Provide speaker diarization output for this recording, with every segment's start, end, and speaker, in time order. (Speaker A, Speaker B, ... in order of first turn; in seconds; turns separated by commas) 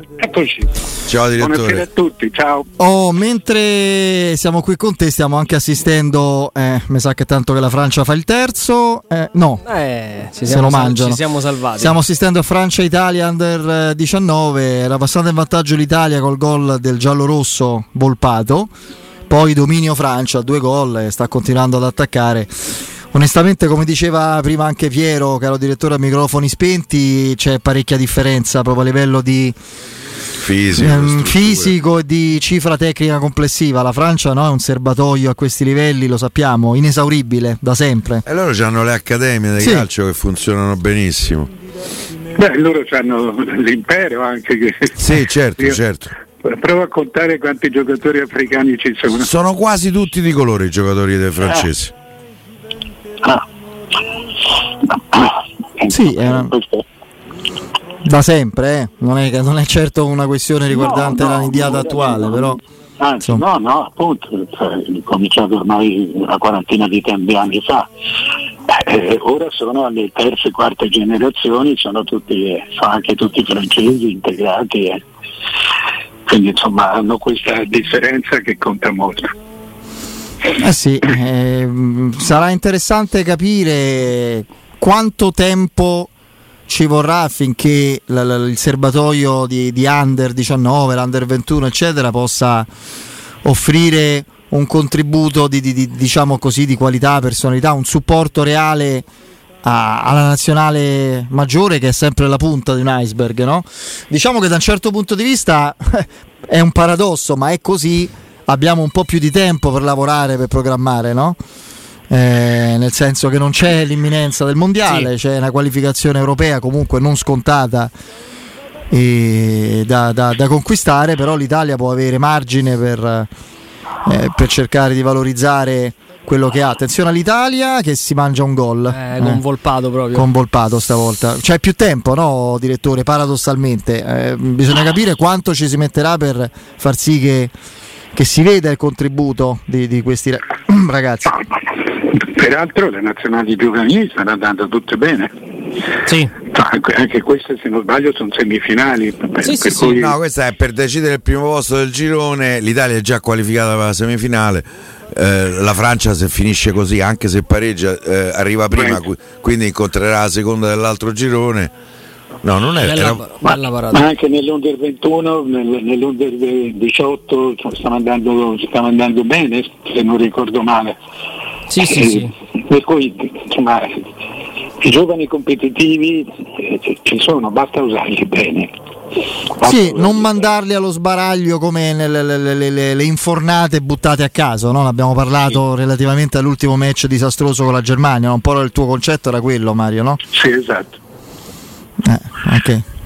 Speaker A: 0.2-0.8, Speaker B: 1.1-1.9, Speaker A: 1.3-2.7, Speaker C: 2.8-9.6, Speaker D: 9.7-11.9, Speaker C: 10.5-11.2, Speaker C: 11.8-18.7, Speaker C: 19.3-29.6, Speaker B: 30.4-31.7, Speaker C: 30.8-38.2, Speaker B: 38.3-41.5, Speaker C: 39.6-39.9, Speaker A: 42.4-45.8, Speaker B: 45.0-46.1, Speaker A: 46.4-49.3, Speaker B: 49.1-51.9, Speaker A: 54.8-56.9, Speaker C: 55.9-56.5, Speaker C: 58.0-62.6, Speaker A: 60.7-67.9, Speaker A: 68.7-75.0, Speaker A: 76.3-79.3, Speaker C: 80.6-86.1, Speaker C: 86.7-92.7, Speaker C: 93.4-99.1, Speaker C: 99.6-111.4, Speaker C: 112.1-117.9, Speaker C: 118.9-123.3, Speaker C: 124.0-129.4, Speaker D: 128.9-130.3, Speaker C: 130.1-137.5, Speaker C: 138.2-141.4, Speaker A: 142.0-145.3, Speaker D: 146.1-146.3, Speaker A: 146.5-150.2, Speaker D: 149.4-149.8, Speaker B: 149.7-161.7, Speaker A: 158.7-159.0, Speaker B: 162.4-163.3, Speaker D: 162.8-164.1, Speaker A: 163.9-171.0, Speaker D: 171.7-172.3, Speaker A: 171.9-174.0, Speaker A: 174.8-178.7, Speaker A: 179.6-180.4, Speaker C: 179.6-190.2, Speaker A: 190.3-191.0, Speaker C: 192.0-192.8